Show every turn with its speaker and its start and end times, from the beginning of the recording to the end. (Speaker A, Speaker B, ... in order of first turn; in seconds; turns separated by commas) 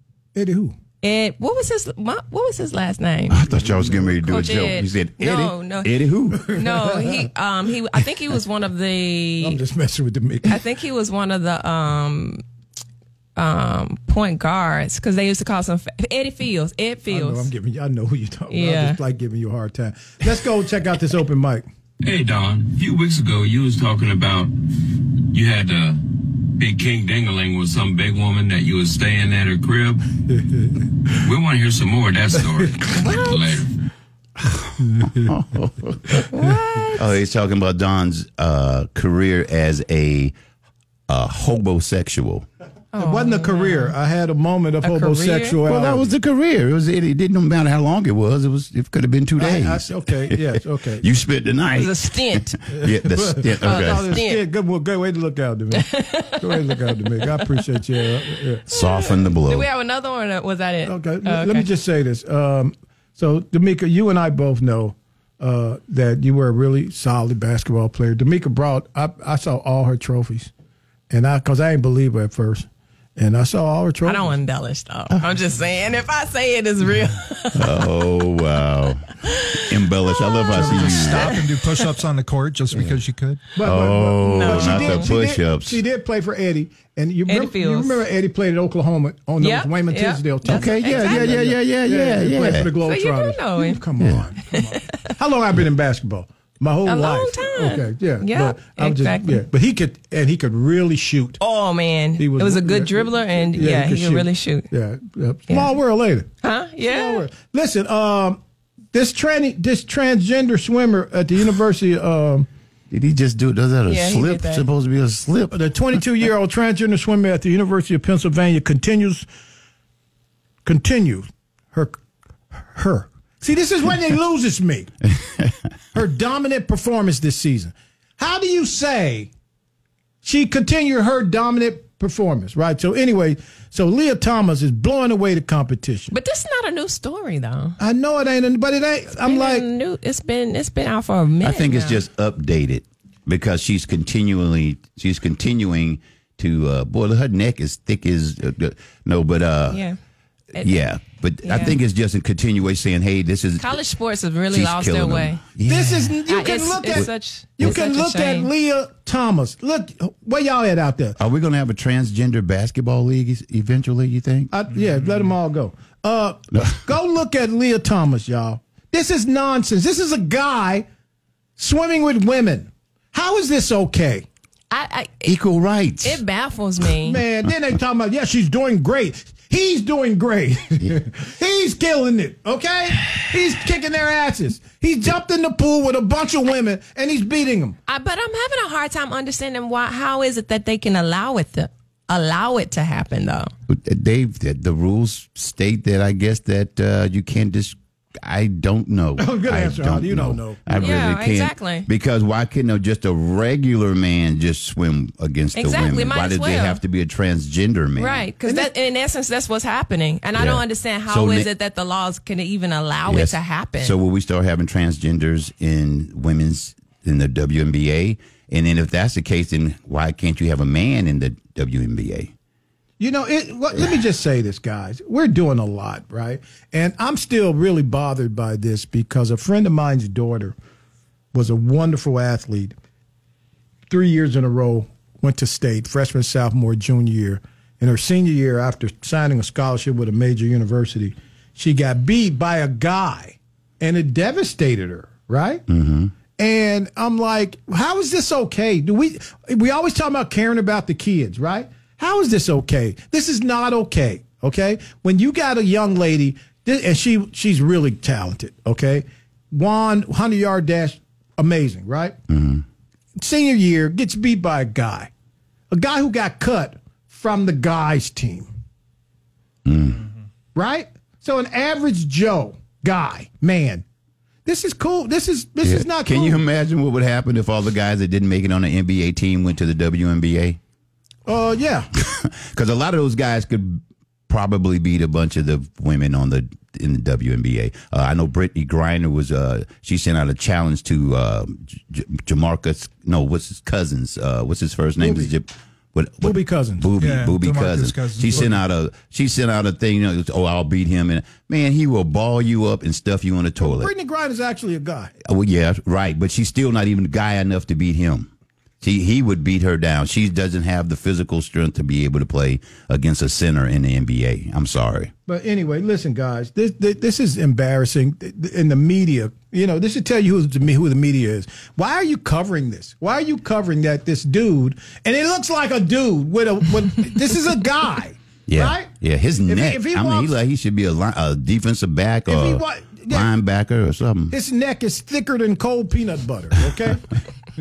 Speaker A: 0.3-0.7, Speaker B: 1.0-3.4, Speaker C: 3.3-6.5, Speaker A: 3.5-4.2, Speaker B: 4.2-5.9, Speaker B: 6.5-9.6, Speaker A: 6.5-7.3, Speaker A: 9.4-10.6, Speaker B: 10.5-12.4, Speaker B: 13.3-17.5, Speaker A: 17.1-21.6, Speaker B: 18.5-19.0, Speaker D: 22.0-24.5, Speaker D: 25.3-30.0, Speaker A: 30.3-30.8, Speaker D: 31.2-33.7, Speaker B: 32.9-33.4, Speaker C: 34.4-36.2, Speaker B: 36.3-37.1, Speaker C: 37.0-40.3, Speaker C: 41.1-42.4, Speaker B: 42.9-43.9, Speaker A: 43.0-46.1, Speaker B: 44.8-45.6, Speaker C: 45.6-50.4, Speaker A: 49.4-51.0, Speaker C: 51.0-54.1, Speaker B: 51.8-52.6, Speaker A: 52.8-55.9, Speaker B: 53.6-54.4, Speaker B: 55.7-56.7, Speaker A: 56.4-58.6, Speaker B: 58.7-61.6, Speaker C: 58.7-59.7, Speaker A: 60.8-70.5, Speaker A: 71.1-74.3, Speaker B: 74.0-77.6, Speaker C: 77.5-81.4, Speaker B: 79.3-79.6, Speaker B: 80.1-81.2, Speaker E: 80.5-83.4, Speaker A: 83.5-101.4, Speaker C: 83.6-85.8, Speaker B: 84.2-85.1, Speaker B: 87.3-88.0, Speaker B: 89.4-91.4, Speaker C: 90.4-92.7, Speaker B: 92.8-93.8, Speaker B: 96.8-99.4, Speaker B: 101.4-104.7, Speaker A: 102.2-106.3, Speaker B: 106.4-107.2, Speaker A: 106.8-108.4, Speaker A: 108.9-112.5, Speaker C: 112.9-115.6, Speaker B: 113.9-114.6, Speaker A: 115.5-119.3, Speaker A: 120.6-122.0, Speaker A: 122.5-124.9, Speaker A: 125.9-129.3, Speaker A: 130.2-136.1, Speaker B: 136.1-137.8, Speaker A: 137.8-139.7, Speaker B: 139.2-142.0, Speaker C: 141.4-149.8, Speaker B: 149.7-149.9, Speaker C: 150.6-153.7, Speaker B: 151.4-151.7, Speaker B: 153.6-155.4, Speaker C: 154.5-156.1, Speaker A: 155.7-161.2, Speaker B: 156.3-158.5, Speaker C: 161.2-164.5, Speaker A: 164.5-170.8, Speaker C: 166.5-166.8, Speaker A: 171.6-174.2, Speaker B: 174.7-175.3, Speaker C: 175.2-176.2, Speaker B: 176.0-177.2, Speaker A: 177.0-187.8, Speaker B: 187.9-193.5, Speaker C: 193.7-208.2, Speaker A: 199.2-201.0, Speaker B: 200.8-201.9, Speaker B: 205.6-206.8, Speaker B: 208.0-213.9, Speaker A: 208.4-208.7, Speaker C: 210.3-211.5, Speaker C: 213.1-222.3, Speaker A: 223.0-230.5, Speaker A: 231.3-232.7, Speaker A: 233.9-245.6, Speaker C: 245.7-246.1, Speaker A: 246.4-262.1, Speaker C: 262.3-262.6, Speaker A: 263.2-265.1, Speaker A: 265.7-268.5, Speaker C: 269.6-270.0, Speaker A: 270.5-273.8, Speaker A: 274.4-276.4, Speaker C: 275.6-280.6, Speaker A: 281.2-281.9, Speaker C: 282.1-303.9, Speaker A: 295.0-295.3, Speaker A: 296.2-296.9, Speaker E: 297.0-298.6, Speaker A: 303.6-305.1, Speaker C: 305.2-308.3, Speaker C: 308.8-315.1, Speaker A: 315.3-328.9, Speaker C: 328.5-334.3, Speaker A: 329.4-330.3, Speaker A: 332.3-333.3, Speaker A: 334.3-337.0